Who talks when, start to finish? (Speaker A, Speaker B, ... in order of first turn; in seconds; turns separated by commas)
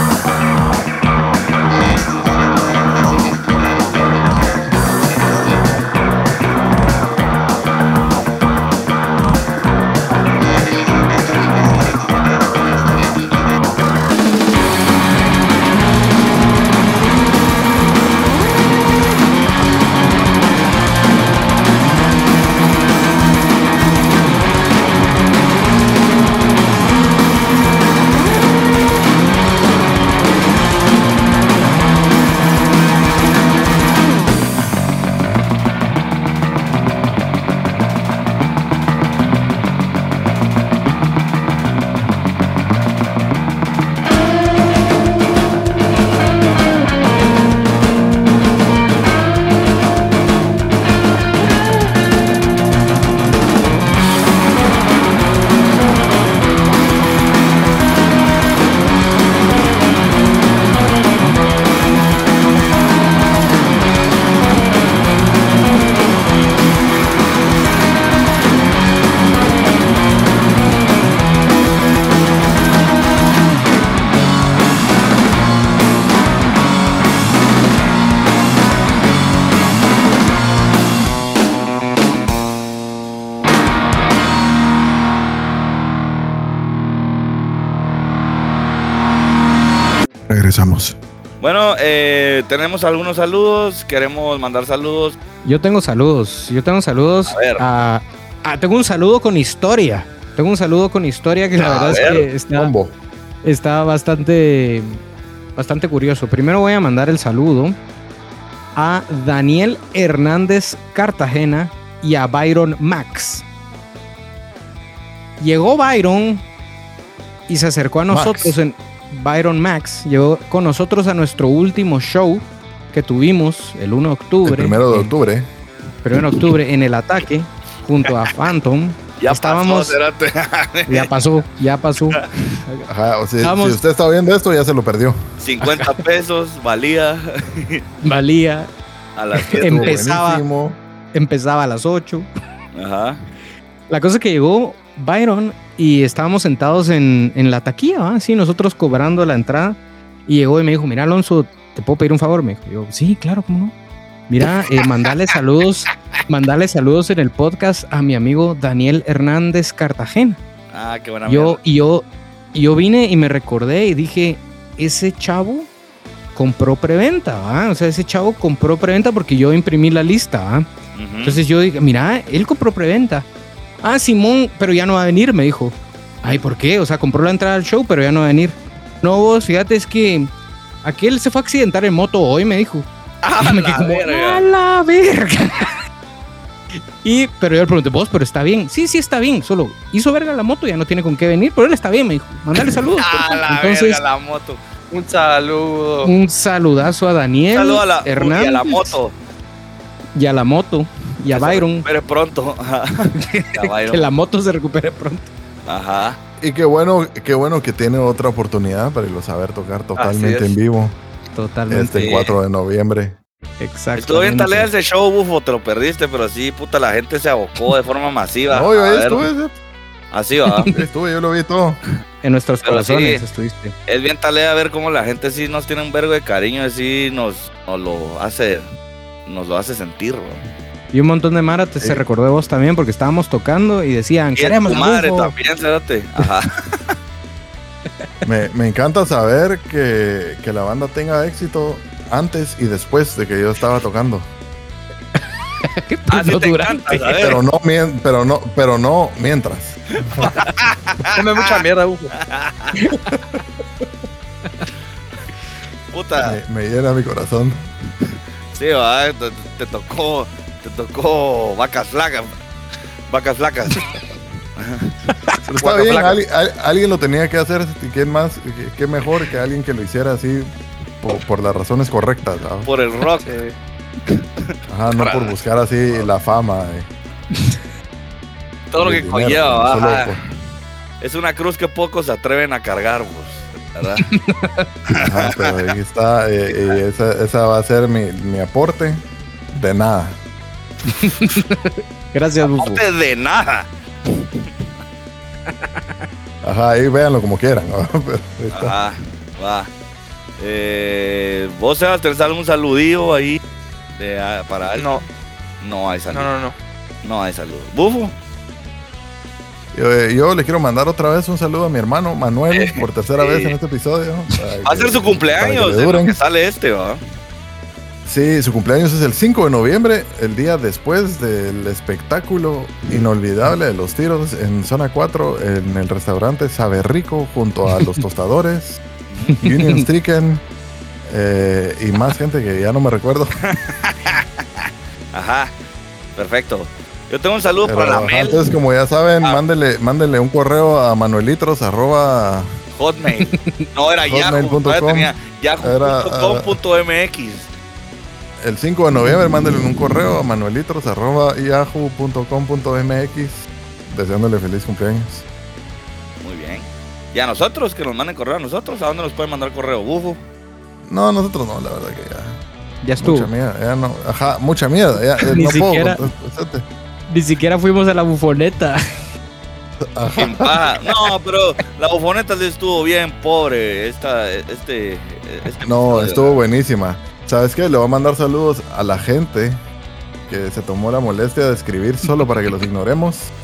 Speaker A: 90.3-91.0, Speaker B: 91.4-95.2, Speaker C: 95.5-102.7, Speaker B: 97.3-97.6, Speaker B: 101.6-102.3, Speaker A: 102.5-103.0, Speaker C: 103.4-105.0, Speaker C: 105.6-107.8, Speaker C: 108.8-113.5, Speaker C: 115.4-116.4, Speaker C: 117.5-125.1, Speaker A: 118.1-118.6, Speaker A: 124.4-125.5, Speaker C: 126.0-130.0, Speaker B: 129.2-131.1, Speaker C: 130.9-132.9, Speaker A: 132.9-135.2, Speaker C: 133.4-133.8, Speaker B: 135.4-137.8, Speaker C: 135.7-136.0, Speaker C: 138.0-138.7, Speaker B: 139.2-140.1, Speaker C: 139.5-140.4, Speaker A: 139.6-140.8, Speaker C: 141.1-142.3, Speaker B: 142.8-143.2, Speaker C: 143.9-153.7, Speaker C: 154.3-160.4, Speaker B: 160.7-161.6, Speaker C: 161.3-165.7, Speaker C: 166.3-170.7, Speaker B: 170.9-171.4, Speaker C: 171.2-173.3, Speaker C: 173.8-180.3, Speaker C: 180.8-185.8, Speaker B: 183.2-184.5, Speaker C: 187.0-194.0, Speaker B: 193.0-194.6, Speaker D: 194.9-196.1, Speaker C: 196.0-199.0, Speaker B: 197.5-199.1, Speaker C: 200.2-201.9, Speaker B: 201.3-204.1, Speaker C: 203.3-205.3, Speaker B: 205.7-206.2, Speaker A: 206.4-211.0, Speaker D: 210.0-210.5, Speaker C: 211.3-212.1, Speaker A: 211.7-213.2, Speaker B: 212.0-212.3, Speaker C: 213.6-214.7, Speaker B: 214.0-219.2, Speaker A: 218.5-219.6, Speaker B: 220.1-220.7, Speaker C: 220.5-220.8, Speaker A: 220.7-221.8, Speaker C: 222.2-223.7, Speaker B: 222.6-223.2, Speaker B: 223.9-228.7, Speaker B: 229.3-230.4, Speaker C: 230.9-235.3, Speaker B: 234.4-236.8, Speaker A: 238.2-244.3, Speaker C: 245.2-247.2, Speaker B: 246.1-247.4, Speaker A: 247.2-250.3, Speaker B: 250.4-251.4, Speaker D: 251.1-252.1, Speaker B: 252.3-252.8, Speaker C: 252.8-253.2, Speaker B: 255.9-256.4, Speaker A: 256.2-257.7, Speaker B: 258.6-262.4, Speaker B: 263.1-263.9, Speaker B: 264.6-265.1, Speaker A: 265.5-272.7, Speaker D: 265.6-266.1, Speaker B: 272.6-273.3, Speaker D: 273.2-273.6, Speaker A: 274.7-276.9, Speaker B: 274.9-275.4, Speaker B: 278.7-280.3, Speaker A: 278.8-280.2, Speaker B: 281.0-284.1, Speaker C: 284.1-284.7, Speaker B: 284.9-285.5, Speaker A: 284.9-290.2, Speaker B: 286.5-286.8, Speaker C: 290.9-292.8, Speaker B: 292.4-294.5, Speaker A: 296.4-298.8, Speaker B: 298.5-299.7, Speaker B: 300.4-303.4, Speaker B: 304.0-304.9, Speaker D: 304.8-305.0, Speaker B: 305.6-306.3, Speaker D: 306.1-306.6, Speaker B: 307.0-308.1, Speaker A: 309.7-316.1, Speaker B: 312.5-313.6, Speaker B: 314.6-317.0, Speaker A: 318.1-328.8, Speaker B: 329.1-329.4, Speaker C: 329.3-329.9, Speaker A: 329.4-330.4, Speaker A: 331.1-333.3, Speaker B: 333.4-335.5, Speaker B: 336.2-338.5, Speaker A: 337.6-342.5, Speaker B: 342.8-347.5, Speaker C: 343.4-343.7, Speaker A: 344.1-346.6, Speaker A: 348.4-355.2, Speaker B: 356.2-360.2, Speaker A: 360.9-362.4, Speaker C: 362.8-363.3, Speaker A: 363.0-366.6, Speaker C: 365.3-366.1, Speaker C: 367.1-368.8, Speaker A: 369.8-370.8, Speaker B: 370.2-376.4, Speaker A: 375.6-379.6, Speaker A: 380.3-383.3